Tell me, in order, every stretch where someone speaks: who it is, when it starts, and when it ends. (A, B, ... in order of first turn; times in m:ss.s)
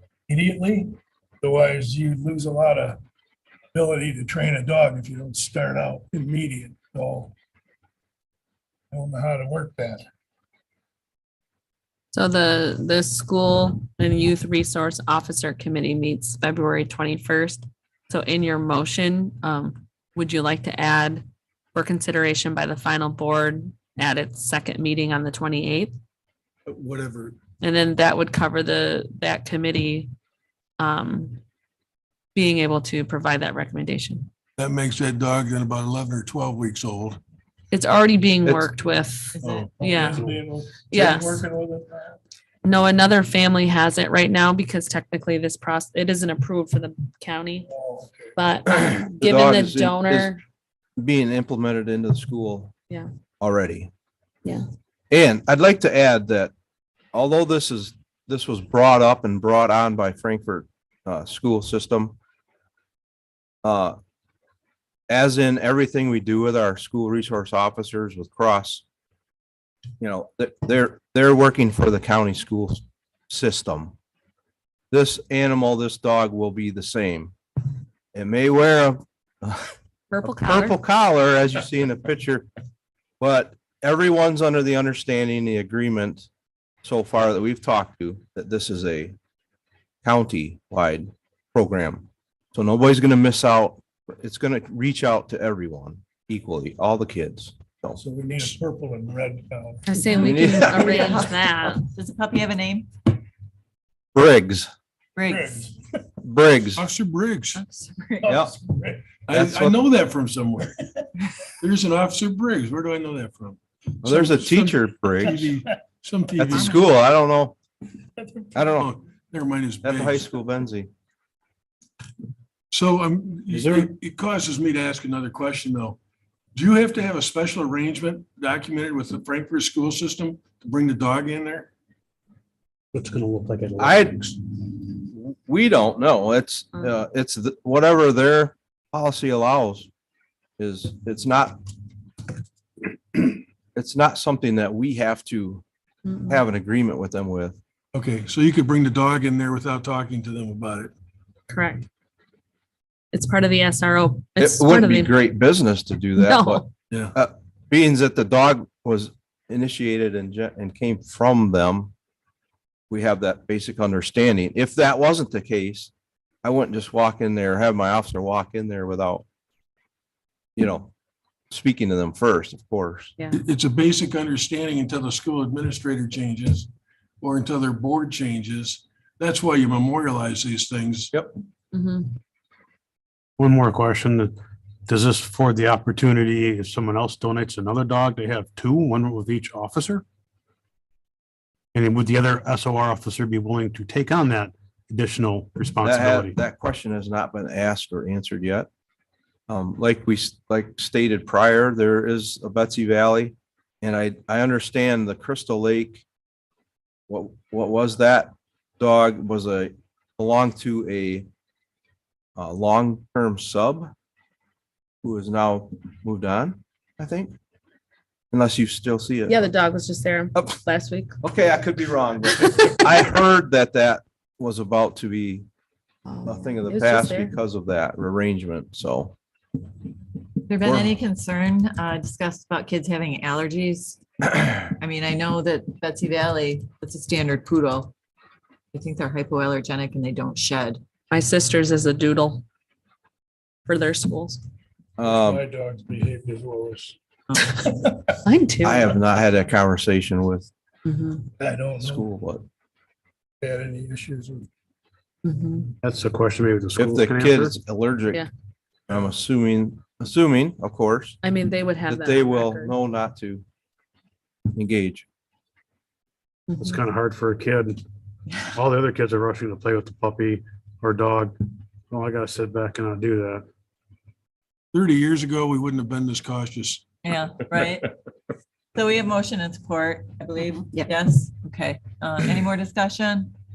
0:00.3-0:03.0 A
0:03.7-0:07.3 A
0:08.9-0:10.0 A
0:12.1-0:26.0 B
0:26.6-0:27.4 C
0:27.6-0:30.1 B
0:30.8-0:31.4 B
0:32.3-0:34.3 B
0:34.6-0:37.2 C
0:37.7-0:40.2 B
0:38.4-0:38.7 C
0:39.4-0:39.6 D
0:39.4-0:40.2 C
0:39.7-0:42.2 A
0:40.9-0:41.4 B
0:42.6-0:47.7 B
0:47.7-0:48.3 A
0:48.4-0:50.4 B
0:48.7-0:50.4 E
0:51.0-0:52.7 E
0:53.4-0:53.9 E
0:55.1-0:56.5 E
0:57.1-1:02.2 E
1:03.6-1:04.0 E
1:05.1-1:08.8 E
1:10.0-1:13.9 E
1:14.9-1:17.3 E
1:18.1-1:19.7 E
1:20.1-1:20.8 B
1:20.2-1:22.5 E
1:23.2-1:26.3 E
1:26.8-1:29.2 E
1:30.0-1:38.0 E
1:37.9-1:40.1 A
1:39.9-1:41.8 B
1:40.2-1:42.9 D
1:40.2-1:40.9 E
1:44.1-1:44.7 E
1:45.2-1:45.6 D
1:45.3-1:46.0 A
1:46.2-1:46.8 E
1:46.8-1:47.6 C
1:47.5-1:48.4 D
1:48.2-1:49.2 A
1:48.3-1:48.5 E
1:49.3-1:50.7 C
1:49.3-1:49.8 E
1:51.6-1:56.8 C
1:54.0-1:55.4 E
1:55.4-1:55.8 A
1:56.4-1:57.6 E
1:56.5-1:56.8 D
1:58.2-1:58.7 A
1:58.5-1:58.9 E
1:58.7-2:00.3 C
1:59.8-2:00.9 E
2:02.7-2:06.0 C
2:03.5-2:03.9 F
2:06.5-2:11.7 C
2:12.9-2:14.1 F
2:13.8-2:19.9 E
2:20.6-2:21.6 E
2:23.7-2:25.6 E
2:26.0-2:26.4 B
2:26.3-2:27.6 E
2:27.9-2:30.9 C
2:31.5-2:31.8 B
2:33.1-2:35.2 B
2:34.4-2:41.9 E
2:36.2-2:36.7 B
2:36.9-2:37.2 C
2:42.9-2:45.9 E
2:46.4-2:49.2 E
2:50.6-2:50.9 E
2:51.5-2:53.1 E
2:53.3-2:56.7 C
2:57.2-3:01.1 C
3:01.7-3:02.1 B
3:03.4-3:04.3 F
3:04.9-3:10.0 F
3:11.7-3:16.4 F
3:15.8-3:18.7 E
3:19.5-3:26.0 E
3:27.1-3:31.3 E
3:32.4-3:33.9 E
3:35.0-3:37.3 E
3:38.3-3:39.5 E
3:39.3-3:41.1 B
3:41.2-3:45.4 E
3:46.0-3:47.3 B
3:46.2-3:49.1 E
3:50.5-3:57.9 D
3:50.6-3:51.0 E
3:58.7-4:00.8 D
4:01.1-4:02.4 B
4:03.6-4:04.4 B
4:05.0-4:05.4 E
4:05.0-4:08.1 A
4:08.2-4:08.9 B
4:08.6-4:10.5 E
4:10.8-4:11.3 B
4:11.4-4:12.1 A
4:11.8-4:12.4 E
4:13.4-4:14.5 A
4:15.2-4:15.7 B
4:15.8-4:17.6 F
4:16.8-4:18.2 E
4:18.9-4:21.2 E
4:21.2-4:22.7 B
4:21.9-4:23.4 E
4:24.5-4:25.0 E
4:26.5-4:26.8 B
4:26.6-4:27.8 F
4:28.5-4:31.4 F
4:31.9-4:33.4 F
4:34.7-4:36.9 C
4:37.0-4:37.9 D
4:38.7-4:43.3 D